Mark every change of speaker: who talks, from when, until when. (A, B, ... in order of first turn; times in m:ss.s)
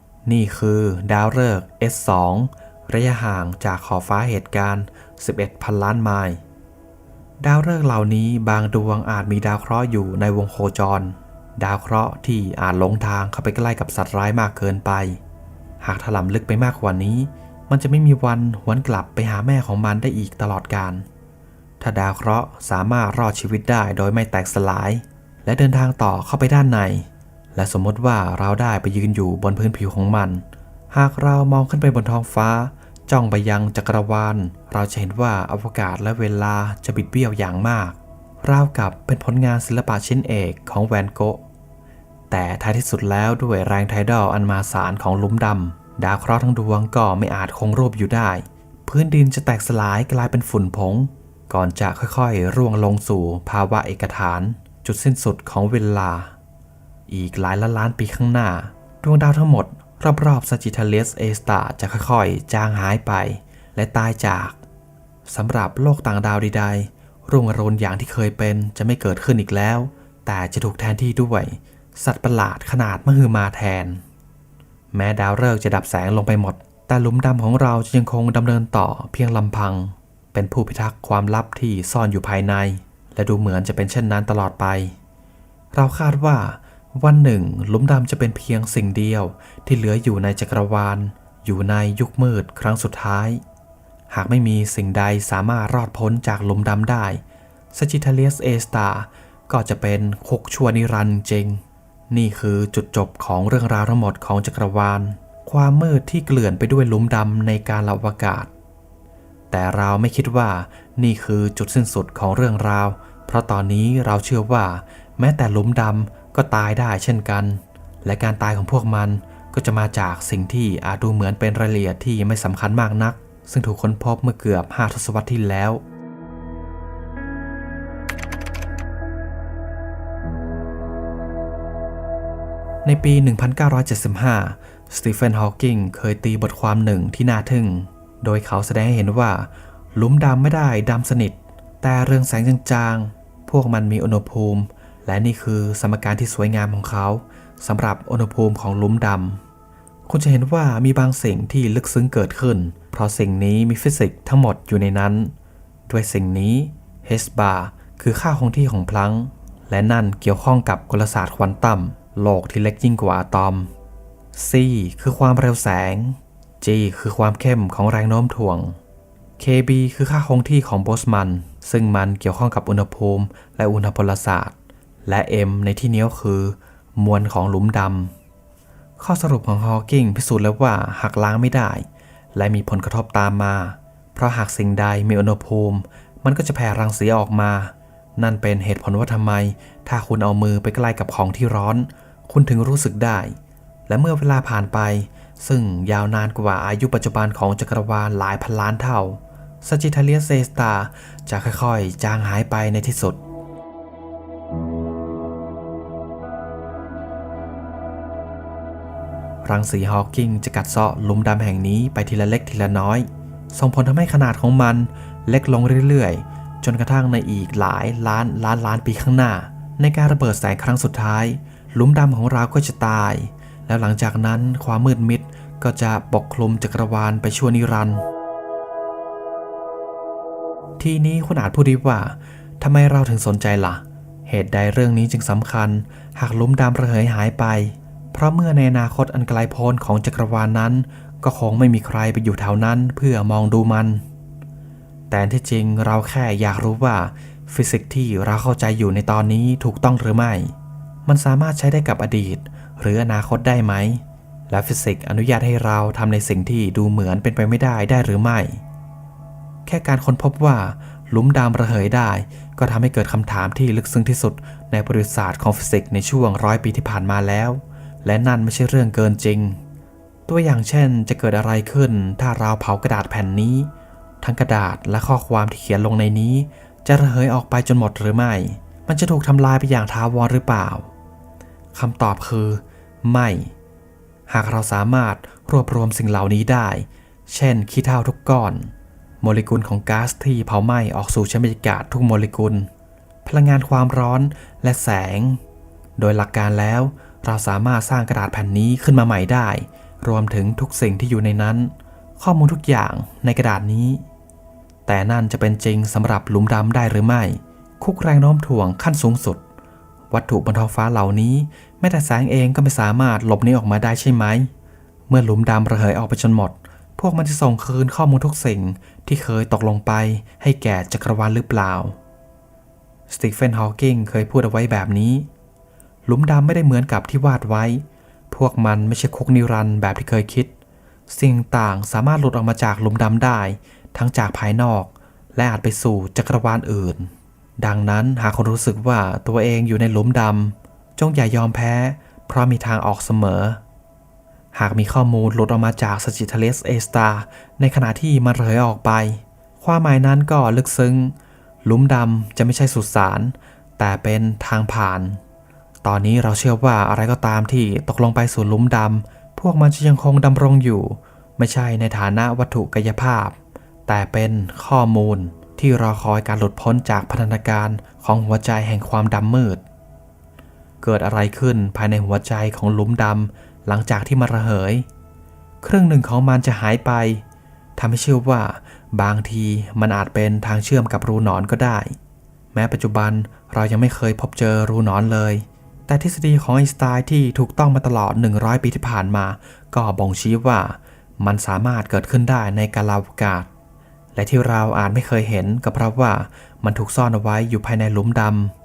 0:00.2-0:06.4 A
0:07.4-0:15.2 A
0:15.8-0:21.1 A
0:21.8-0:41.4 A
0:42.3-0:56.3 A
0:57.1-1:04.6 A
1:05.3-1:14.0 A
1:14.9-1:25.0 A
1:25.7-1:33.4 A
1:34.1-1:37.2 A
1:37.7-1:48.5 A
1:49.5-2:05.8 A
2:12.8-2:29.4 A
2:30.1-2:35.3 A
2:35.9-2:43.7 A
2:44.3-2:48.8 A
2:49.4-2:58.1 A
2:59.0-3:23.2 A
3:29.4-3:48.0 A
3:50.8-4:04.0 A
4:05.1-4:10.5 A
4:11.1-4:18.6 A
4:19.7-4:29.6 A
4:30.3-4:40.9 A
4:41.7-4:43.5 A
4:44.3-4:52.7 A
4:53.2-4:55.4 A
4:56.0-5:04.0 A
5:04.9-5:09.4 A
5:10.1-5:14.5 A
5:15.1-5:22.0 A
5:23.1-5:25.3 A
5:26.1-5:30.5 A
5:31.1-5:43.6 A
5:44.5-5:55.2 A
5:55.8-6:09.6 A
6:10.8-6:14.9 A
6:15.6-6:17.2 A
6:17.8-6:22.0 A
6:22.5-6:33.5 A
6:34.2-6:38.5 A